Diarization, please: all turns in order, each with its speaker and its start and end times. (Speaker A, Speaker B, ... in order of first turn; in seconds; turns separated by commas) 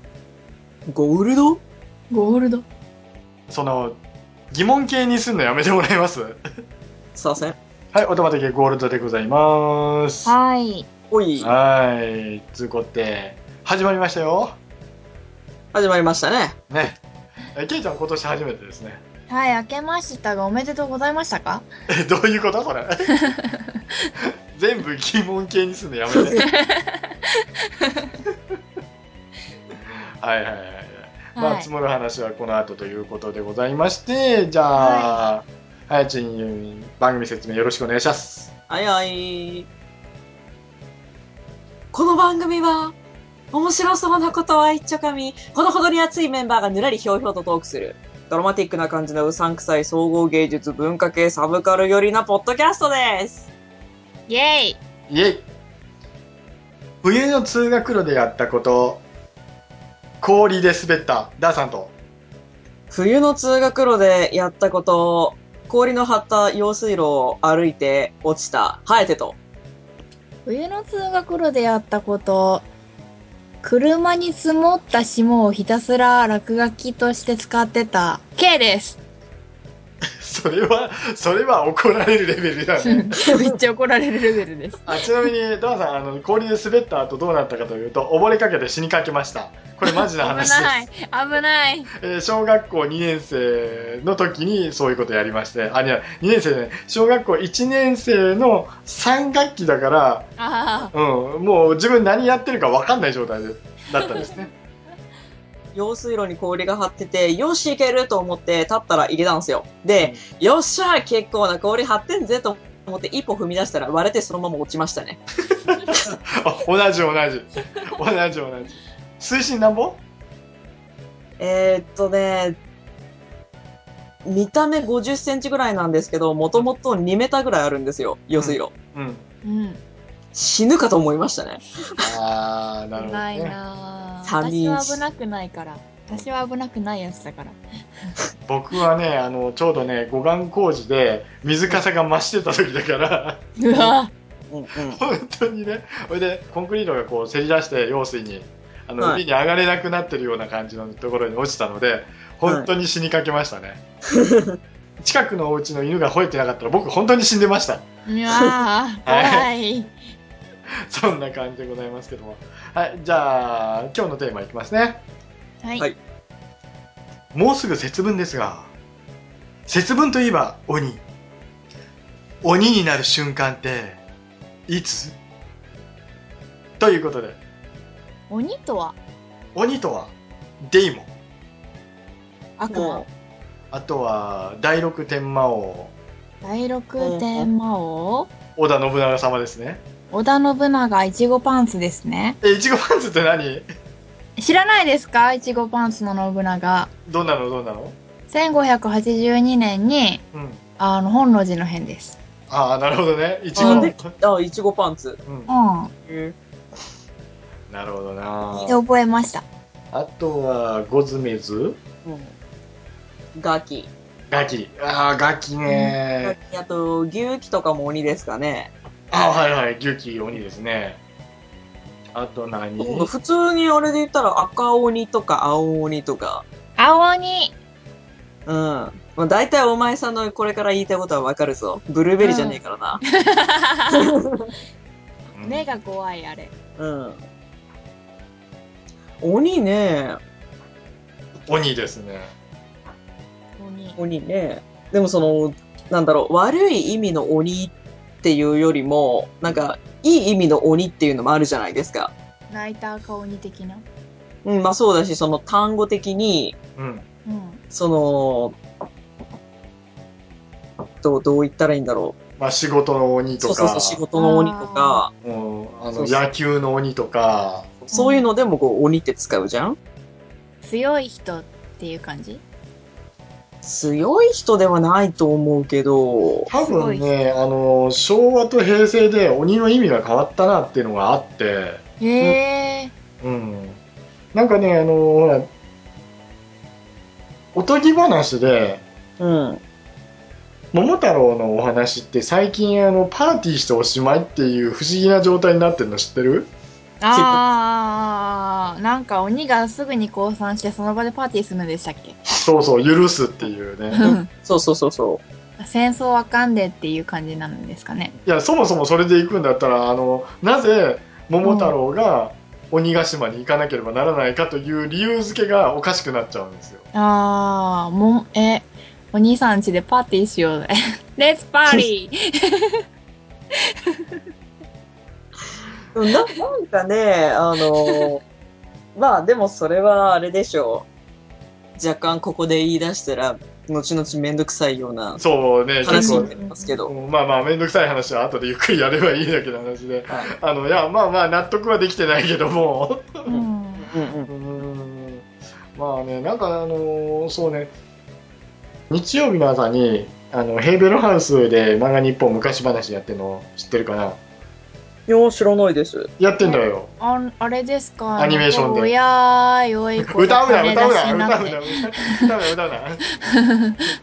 Speaker A: 0.9-1.6, Speaker B: 2.1-2.6, Speaker C: 3.5-4.0, Speaker C: 4.5-6.4, Speaker A: 7.2-7.6, Speaker C: 7.9-10.3, Speaker B: 10.2-10.9, Speaker A: 11.1-11.5, Speaker C: 11.4-14.6, Speaker A: 15.7-16.6, Speaker C: 16.7-17.0, Speaker C: 17.5-19.0, Speaker B: 19.3-21.7, Speaker C: 21.9-23.1, Speaker B: 23.3-23.6, Speaker C: 24.2-26.4, Speaker B: 26.4-28.1, Speaker C: 29.9-38.5, Speaker B: 31.3-31.7, Speaker B: 34.7-35.2, Speaker A: 38.7-39.7, Speaker A: 41.9-43.0, Speaker A: 43.5-53.5, Speaker B: 54.3-54.8, Speaker C: 55.1-55.5, Speaker C: 57.0-59.0, Speaker C: 60.2-61.9, Speaker A: 62.9-69.4, Speaker B: 70.5-72.7, Speaker B: 73.6-79.0, Speaker C: 80.2-83.4, Speaker B: 82.8-85.3, Speaker C: 84.8-90.9, Speaker B: 90.0-91.9, Speaker C: 92.0-100.3, Speaker B: 100.4-100.9, Speaker C: 100.9-104.5, Speaker B: 104.0-104.4, Speaker A: 105.7-115.2, Speaker C: 115.5-120.0, Speaker A: 121.4-122.6, Speaker A: 124.2-128.7, Speaker C: 128.4-129.2, Speaker B: 129.4-129.8, Speaker A: 130.3-131.6, Speaker C: 132.0-133.6, Speaker B: 132.9-137.6, Speaker A: 134.2-135.0, Speaker C: 138.4-143.4, Speaker B: 143.6-144.1, Speaker A: 144.5-145.0, Speaker C: 144.9-153.8, Speaker A: 154.1-154.6, Speaker C: 155.0-157.8, Speaker B: 158.1-159.9, Speaker C: 159.1-159.5, Speaker C: 160.9-165.0, Speaker C: 167.3-168.7, Speaker C: 169.7-171.0, Speaker C: 172.4-174.0, Speaker C: 174.7-175.2, Speaker C: 176.8-177.4, Speaker B: 178.3-179.0, Speaker C: 179.5-181.1, Speaker B: 182.6-183.1, Speaker A: 182.7-183.0, Speaker C: 183.7-185.9, Speaker B: 186.4-188.3, Speaker A: 187.0-187.5, Speaker C: 188.6-189.8, Speaker B: 190.1-192.4, Speaker C: 192.4-193.6, Speaker B: 194.4-196.9, Speaker C: 197.1-197.9, Speaker B: 198.3-200.2, Speaker C: 200.3-200.6, Speaker B: 200.8-202.2, Speaker C: 202.5-204.1, Speaker B: 203.6-203.9, Speaker A: 203.6-205.2, Speaker C: 205.2-205.5, Speaker B: 205.5-205.9, Speaker A: 206.0-206.3, Speaker C: 207.7-208.8, Speaker B: 208.6-209.4, Speaker C: 209.9-211.8, Speaker A: 212.0-212.3, Speaker A: 213.3-213.9, Speaker C: 214.3-216.3, Speaker B: 215.7-215.9, Speaker A: 216.2-218.7, Speaker C: 219.1-221.0, Speaker C: 222.1-223.1, Speaker A: 222.8-226.4, Speaker B: 226.8-227.5, Speaker A: 228.4-233.0, Speaker B: 232.2-234.1, Speaker A: 234.0-234.5, Speaker C: 235.3-235.7, Speaker B: 235.4-236.5, Speaker A: 236.8-237.2, Speaker A: 239.2-240.2, Speaker C: 241.5-242.3, Speaker B: 243.6-244.0, Speaker A: 244.0-252.1, Speaker B: 252.5-253.8, Speaker A: 254.4-256.6, Speaker C: 256.8-257.1, Speaker B: 257.2-257.6, Speaker A: 257.7-258.6, Speaker A: 261.0-262.1, Speaker C: 262.4-264.0, Speaker A: 263.4-265.1, Speaker B: 264.2-265.0, Speaker C: 265.2-267.7, Speaker A: 265.9-266.2, Speaker A: 267.9-269.8, Speaker B: 267.9-268.2, Speaker B: 270.6-272.4, Speaker A: 273.6-276.5, Speaker C: 276.5-281.8, Speaker B: 276.6-277.1, Speaker B: 282.0-282.9, Speaker C: 283.2-283.8, Speaker C: 284.3-285.5, Speaker C: 287.6-288.8, Speaker A: 289.2-289.6, Speaker C: 290.7-296.5, Speaker B: 297.0-302.2, Speaker A: 297.1-297.4, Speaker C: 302.3-304.1, Speaker B: 303.9-304.3, Speaker A: 304.0-305.2, Speaker B: 305.6-308.1, Speaker C: 308.2-316.8, Speaker B: 311.4-311.7, Speaker B: 316.9-322.8, Speaker B: 323.9-324.2, Speaker A: 325.9-328.2, Speaker A: 328.9-330.9, Speaker A: 331.8-335.2, Speaker C: 335.2-343.3, Speaker A: 335.8-336.9, Speaker B: 335.9-336.7, Speaker B: 343.3-343.9, Speaker A: 343.3-344.3, Speaker C: 344.3-347.7, Speaker C: 348.9-354.2, Speaker A: 355.1-356.1, Speaker C: 356.2-356.9, Speaker B: 356.4-361.8, Speaker C: 358.2-358.9, Speaker C: 360.0-363.1, Speaker B: 363.3-363.8